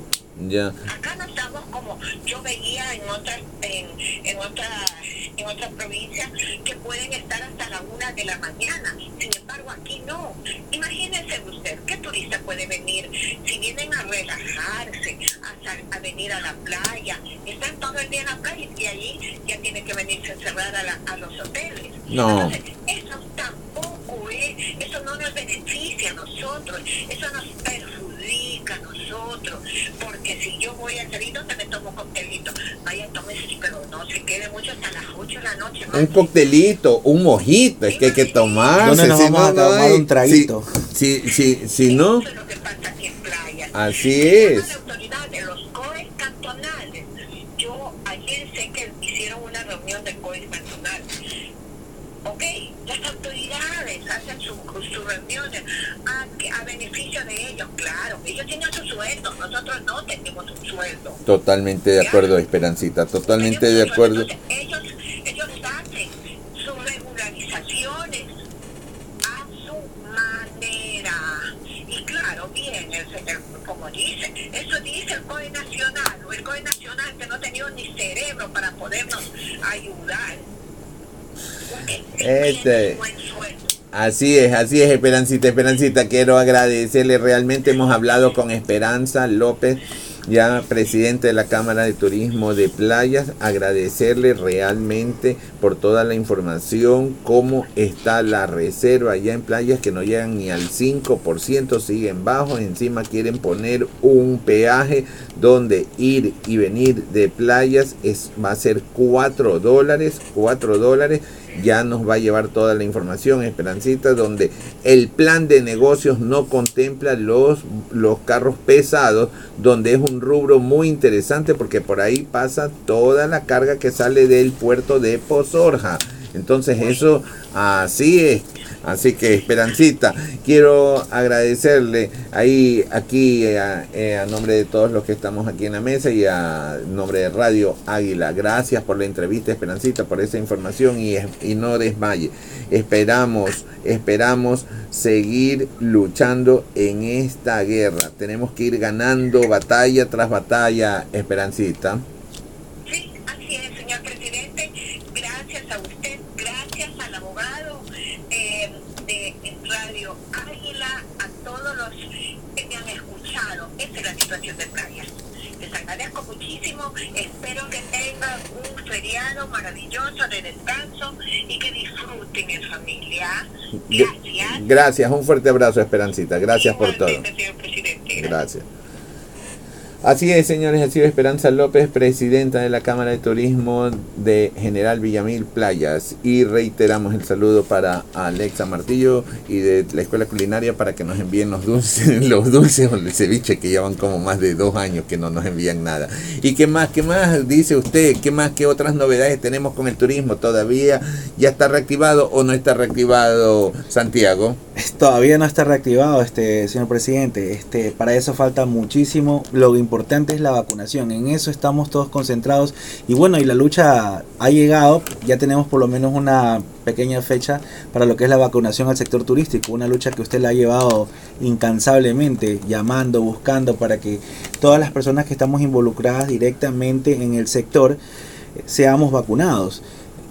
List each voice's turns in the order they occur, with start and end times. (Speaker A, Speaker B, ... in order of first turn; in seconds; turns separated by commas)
Speaker A: 0.4-0.8, Speaker B: 0.9-36.3, Speaker A: 22.1-22.6, Speaker A: 35.9-42.2, Speaker B: 37.9-38.9, Speaker C: 38.8-40.7, Speaker B: 41.8-51.1, Speaker A: 43.7-44.8, Speaker B: 52.2-61.2, Speaker A: 61.3-64.3, Speaker B: 62.0-62.3, Speaker B: 63.4-68.3, Speaker B: 69.2-80.5, Speaker B: 81.7-83.7, Speaker A: 82.2-83.0, Speaker A: 83.9-152.0, Speaker B: 152.9-162.0, Speaker B: 162.6-174.7, Speaker A: 173.8-177.3, Speaker B: 176.5-178.4, Speaker A: 178.2-178.7, Speaker A: 180.0-204.6, Speaker C: 204.8-228.0, Speaker C: 228.6-229.8